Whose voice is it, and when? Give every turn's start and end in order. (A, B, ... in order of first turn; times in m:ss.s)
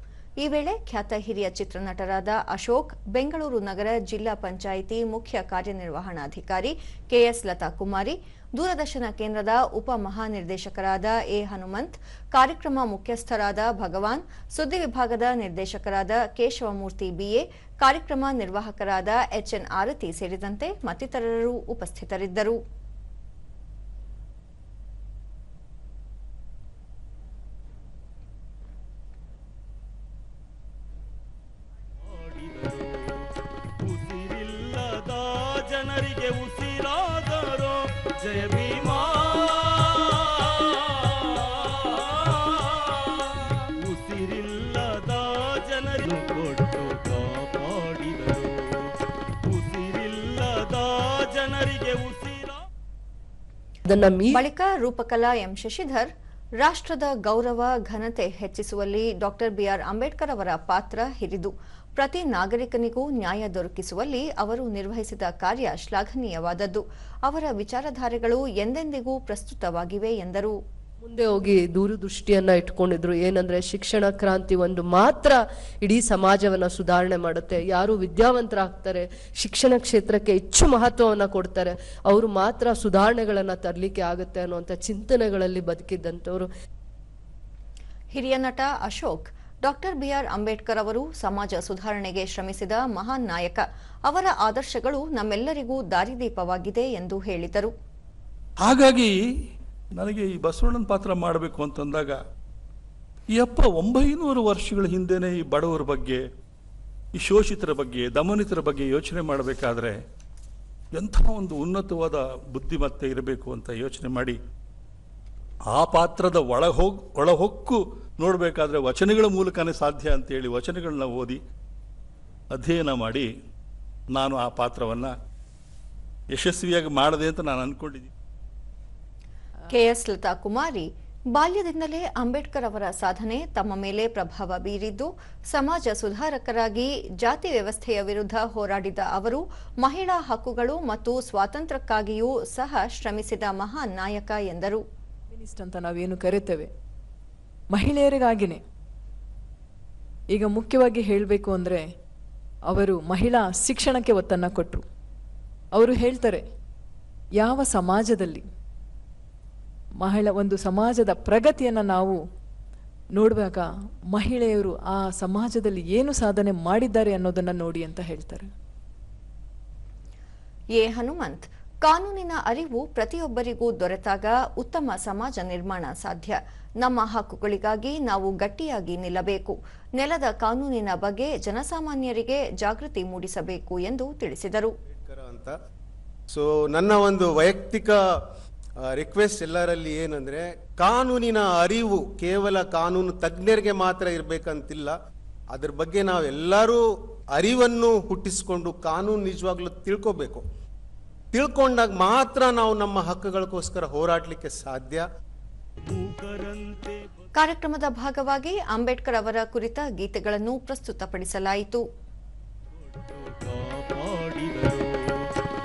0:00.4-0:22.6 A
0:32.0-0:48.9 B
0:49.4-0:52.6 B
0:53.9-0:54.4 C
0:54.3-1:10.6 A
1:11.0-1:26.5 C
1:28.1-1:37.7 A
1:38.6-1:39.2 D
1:40.0-1:42.2 D
1:43.4-1:46.2 D
1:47.2-1:50.0 D
1:51.0-1:54.4 D
1:55.7-2:01.4 D
2:02.5-2:03.3 D
2:04.2-2:05.1 D
2:06.3-2:08.1 D
2:09.7-2:24.8 A
2:25.4-2:26.7 E
2:27.7-2:28.6 E
2:30.3-2:31.8 E
2:32.7-2:34.8 E
2:35.7-2:36.4 E
2:37.4-2:38.4 E
2:40.0-2:42.2 E
2:43.2-2:48.5 E
2:50.8-3:04.7 A
3:04.9-3:05.6 F
3:06.3-3:08.0 F
3:08.9-3:15.0 F
3:15.5-3:16.8 F
3:17.4-3:20.4 F
3:21.3-3:25.0 F
3:25.9-3:27.1 B
3:27.4-3:31.8 A
3:32.8-3:35.3 B